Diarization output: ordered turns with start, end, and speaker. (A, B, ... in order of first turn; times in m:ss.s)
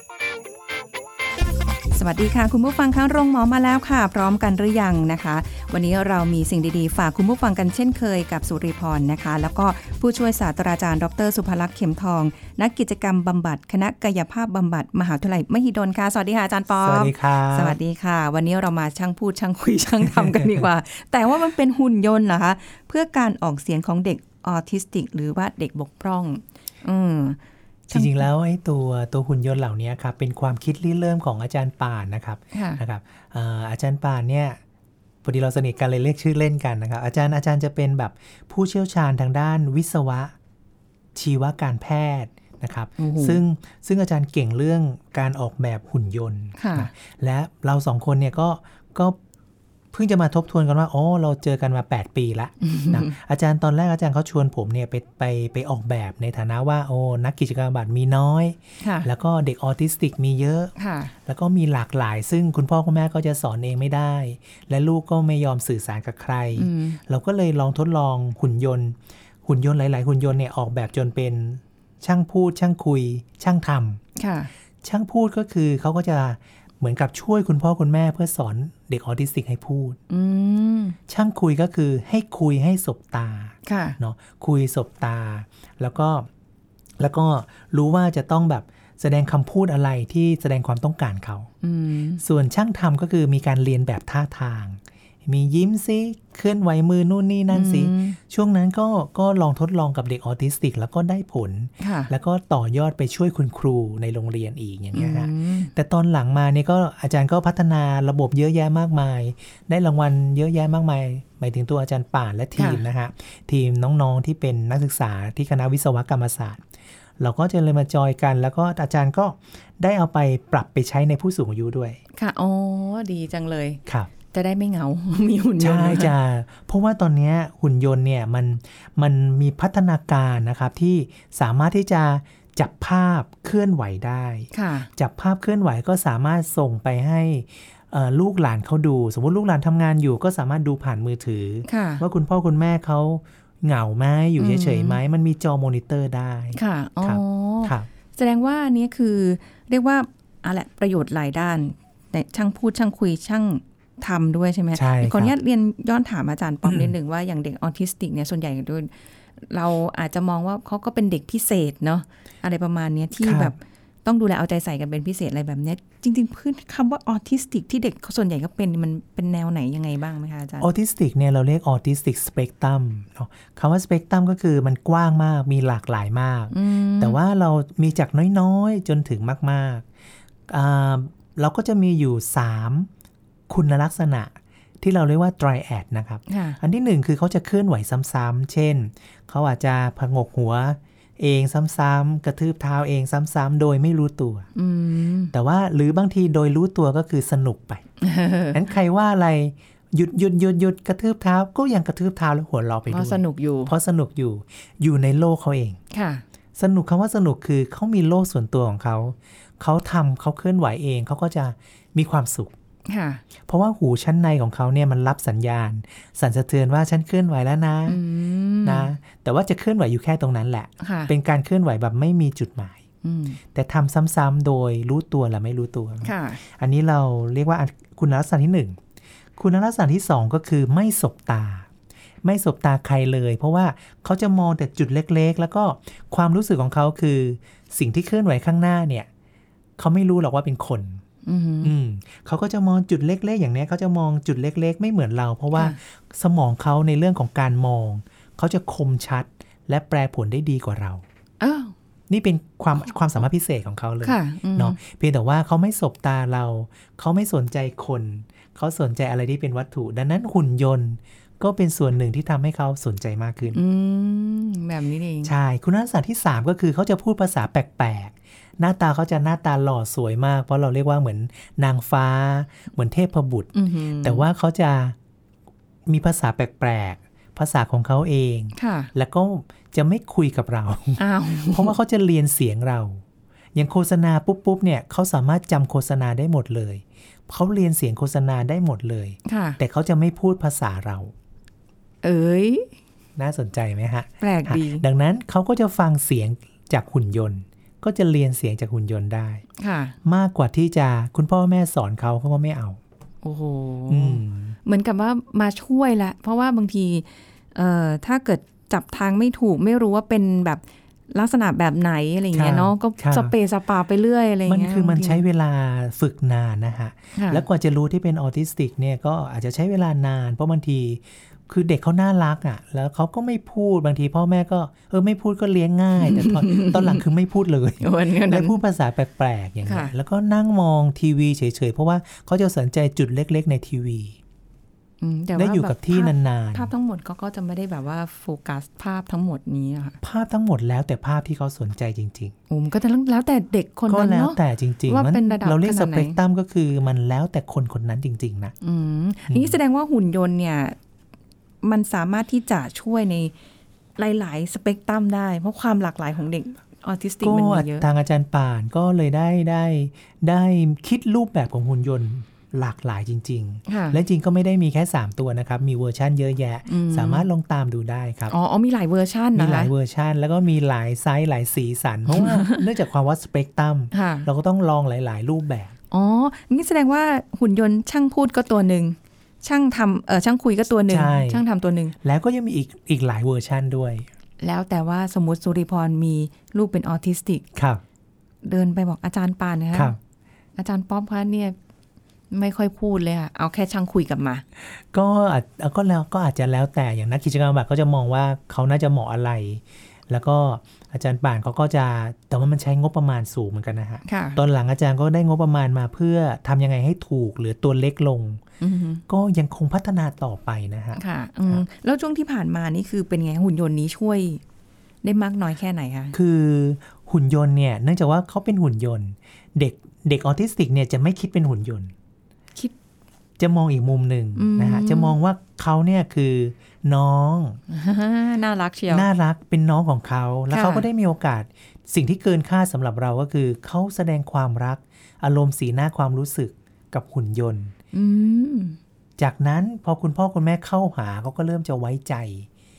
0:01.9-0:27.4 A
0:16.8-0:17.8 B
0:20.1-0:20.6 B
0:27.9-0:28.2 A
0:27.9-0:34.6 B
0:32.5-0:32.8 A
0:35.2-0:40.3 B
0:41.2-0:49.2 B
0:43.0-0:43.4 A
0:46.6-0:46.9 A
0:49.9-1:00.7 B
0:52.6-0:53.1 A
0:58.8-0:59.1 A
1:00.8-1:01.1 A
1:01.2-1:14.0 B
1:06.6-1:07.0 A
1:14.2-1:14.5 A
1:14.8-1:20.0 B
1:20.1-1:21.0 A
1:21.1-1:26.3 B
1:23.7-1:24.0 A
1:27.0-1:31.5 B
1:31.6-1:32.2 A
1:32.2-1:56.6 B
1:37.5-1:38.2 A
1:41.8-1:42.1 A
1:44.9-1:45.7 A
1:52.6-1:52.8 A
1:57.2-2:02.0 B
2:02.2-2:03.8 A
2:03.9-2:04.1 B
2:04.3-2:06.1 A
2:05.6-2:27.9 B
2:14.5-2:14.9 A
2:21.6-2:22.0 A
2:24.4-2:25.0 A
2:26.6-2:50.7 A
2:34.8-2:35.3 B
2:36.6-2:36.9 B
2:43.2-2:43.5 B
2:50.6-2:59.9 B
2:56.5-2:57.2 A
3:00.5-3:02.9 B
3:03.5-3:14.5 B
3:06.3-3:06.6 A
3:14.6-3:15.3 A
3:15.3-3:17.8 B
3:18.0-3:18.6 A
3:18.5-3:25.8 B
3:22.9-3:23.7 A
3:25.9-3:26.2 A
3:26.6-3:32.5 B
3:32.9-3:33.2 A
3:33.5-3:38.0 B
3:37.9-3:38.9 A
3:38.6-3:42.8 B
3:40.8-3:41.1 A
3:43.0-3:43.4 A
3:43.5-3:48.8 B
3:46.0-3:46.4 A
3:49.4-3:51.7 B
3:52.2-3:59.1 B
3:59.8-4:01.0 B
4:01.2-4:01.7 A
4:01.6-4:11.0 B
4:11.4-4:11.7 A
4:12.1-4:23.6 B
4:14.0-4:14.8 A
4:23.5-4:25.3 A
4:25.2-4:35.0 B
4:33.6-4:34.2 A
4:35.9-4:43.0 B
4:38.6-4:38.9 A
4:41.0-4:41.8 A
4:43.5-4:51.1 B
4:49.3-4:49.6 A
4:52.0-4:52.7 A
4:53.2-4:59.4 B
4:54.2-4:54.8 A
4:59.6-5:00.0 A
5:00.0-5:02.8 B
5:03.2-5:15.2 A
5:03.9-5:04.6 B
5:12.3-5:13.3 B
5:14.5-5:34.2 B
5:17.2-5:17.4 A
5:26.0-5:27.0 A
5:27.8-5:28.6 A
5:29.7-5:29.9 A
5:35.0-5:40.0 A
5:35.4-5:36.7 B
5:40.0-5:42.4 B
5:42.5-5:46.2 A
5:43.9-5:48.6 B
5:48.6-5:50.8 A
5:49.3-5:49.6 B
5:51.6-5:53.3 A
5:54.0-5:57.9 A
5:57.2-6:08.3 B
6:03.7-6:04.0 A
6:06.7-6:07.3 A
6:08.3-6:09.7 A
6:09.4-6:15.8 B
6:12.1-6:12.6 A
6:13.9-6:14.3 A
6:15.9-6:22.0 A
6:20.9-6:21.4 B
6:22.0-6:24.1 B
6:24.4-6:27.5 A
6:27.6-6:27.8 B
6:28.4-6:30.0 A
6:29.7-6:30.0 B
6:30.6-6:31.6 A
6:32.3-6:34.4 A
6:34.9-6:48.4 B
6:44.0-6:44.4 A
6:48.6-6:49.0 A
6:49.1-6:51.6 B
6:51.0-6:54.4 A
6:55.0-6:56.2 A
6:56.1-7:01.9 B
7:03.4-7:07.6 B
7:04.4-7:05.2 A
7:07.7-7:09.1 A
7:08.9-7:17.7 B
7:10.5-7:10.9 A
7:17.9-7:18.8 A
7:19.2-7:22.5 B